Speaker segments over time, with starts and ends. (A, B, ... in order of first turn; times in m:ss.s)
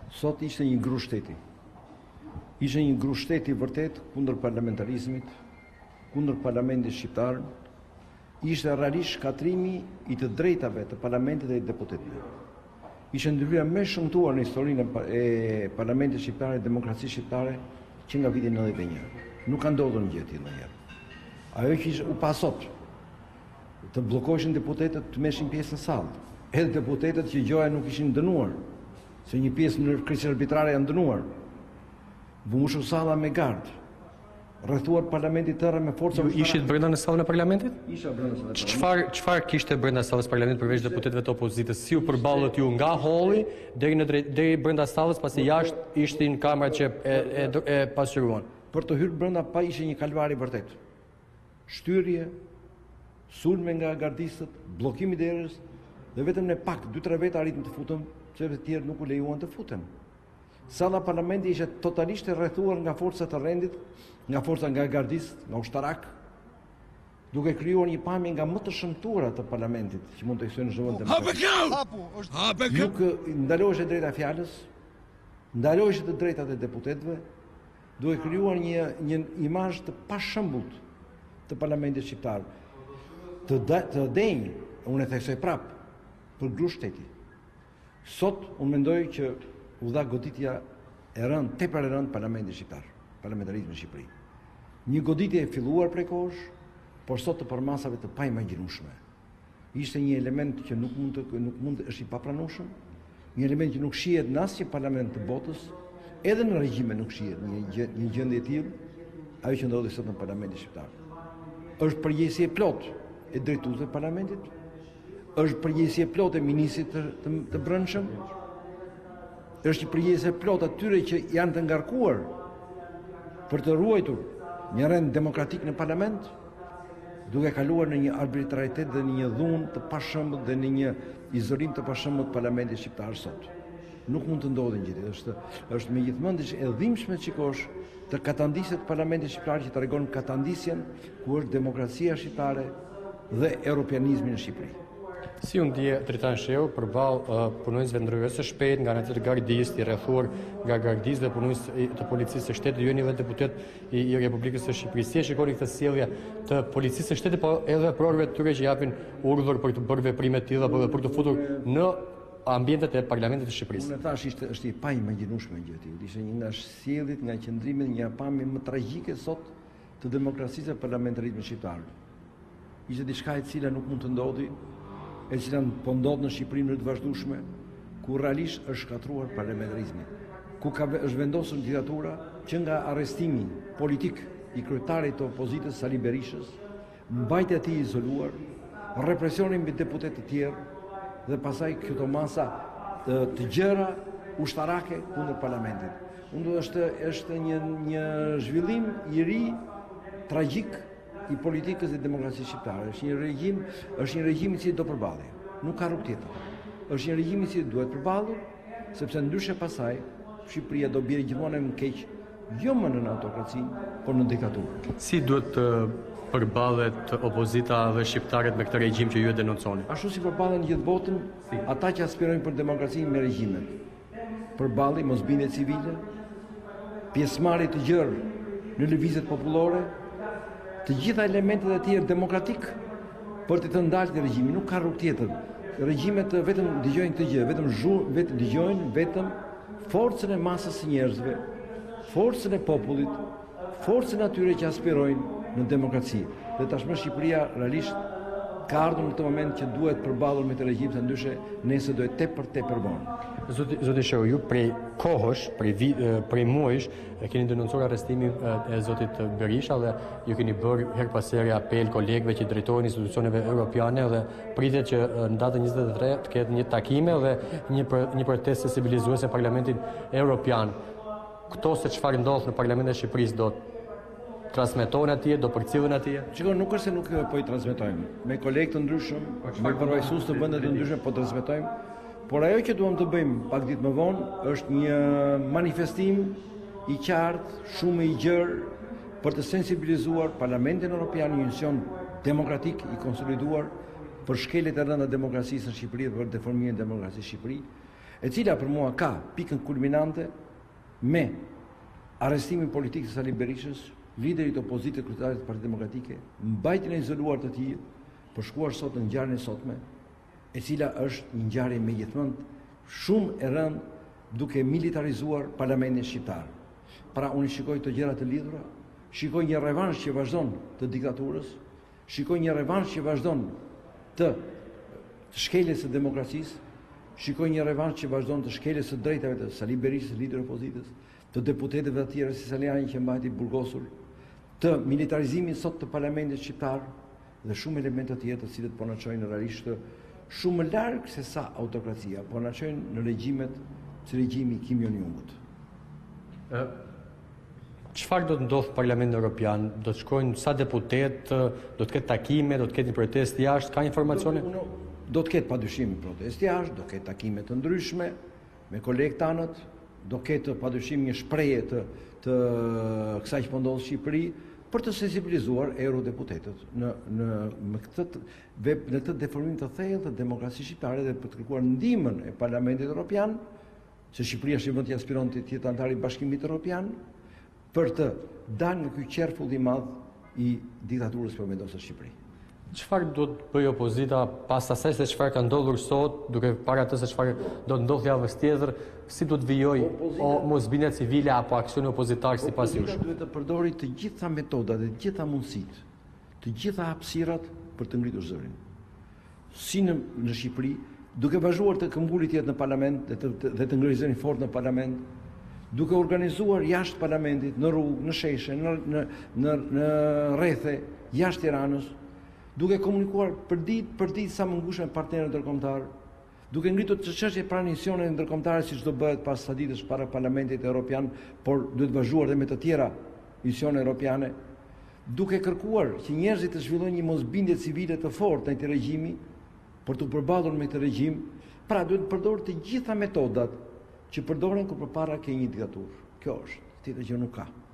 0:00.1-0:01.4 A
0:02.6-0:05.3 A
0:06.1-0:07.5 A
0:08.4-0:12.3 A
0:13.1-0:20.7 A
0:21.5-0:22.7 A
0:23.9-0:28.6 A
0:29.2-0:31.3 A
0:32.4-0:33.7 A
0:34.6-0:36.7 A
0:36.1-0:37.8 B
0:37.8-0:38.9 A
0:38.6-0:48.5 B
0:40.6-0:41.1 A
0:42.0-0:43.3 A
0:45.3-0:47.6 A
0:48.7-0:50.8 A
0:51.7-0:52.3 A
0:53.3-0:55.6 A
0:56.2-0:59.9 A
1:00.7-1:06.1 A
1:07.3-1:11.8 A
1:12.5-1:14.7 A
1:15.5-1:17.2 A
1:18.0-1:20.8 A
1:21.5-1:22.5 A
1:23.5-1:25.8 A
1:26.4-1:27.1 A
1:28.0-1:30.6 A
1:31.2-1:34.1 A
1:34.8-1:36.5 A
1:37.1-1:39.0 A
1:39.7-1:42.7 A
1:43.4-1:48.8 A
1:49.4-1:50.9 A
1:51.8-1:54.5 A
1:55.4-1:58.3 A
1:59.6-2:02.4 A
2:03.5-2:06.3 A
2:07.3-2:13.5 A
2:14.1-2:22.8 A
2:23.3-2:24.8 A
2:25.4-2:43.9 B
2:40.6-2:41.7 A
2:43.7-2:51.9 A
2:52.9-2:54.6 A
2:55.3-2:57.4 A
2:58.0-3:08.4 A
3:08.9-3:10.6 A
3:11.3-3:19.6 A
3:20.3-3:34.9 A
3:35.0-3:39.9 B
3:39.9-3:43.8 A
3:44.6-3:46.1 A
3:47.1-3:49.9 A
3:50.8-3:52.8 A
3:53.5-4:01.4 A
4:02.0-4:08.0 A
4:08.7-4:13.1 A
4:13.5-4:30.8 B
4:31.5-4:33.6 B
4:34.5-4:36.3 B
4:36.3-4:41.7 A
4:39.4-4:40.9 B
4:42.3-4:57.7 A
4:58.2-5:00.3 A
5:01.0-5:01.4 A
5:02.2-5:07.8 A
5:08.3-5:09.8 A
5:10.5-5:16.5 A
5:17.1-5:23.6 A
5:24.2-5:24.4 A
5:25.3-5:26.6 A
5:27.2-5:33.9 A
5:34.6-5:36.9 A
5:37.4-5:39.8 A
5:40.3-5:45.4 A
5:47.9-5:54.5 B
5:54.0-5:58.2 A
5:58.7-6:13.4 A
6:14.1-6:17.0 A
6:17.7-6:22.2 A
6:22.7-6:33.0 B
6:29.8-6:30.5 A
6:32.4-6:35.8 A
6:36.4-6:38.6 A
6:39.5-6:45.0 A
6:45.7-6:52.0 A
6:52.6-6:55.9 A
6:56.5-7:04.4 A
7:05.1-7:09.2 A
7:09.8-7:13.6 A
7:14.1-7:17.5 A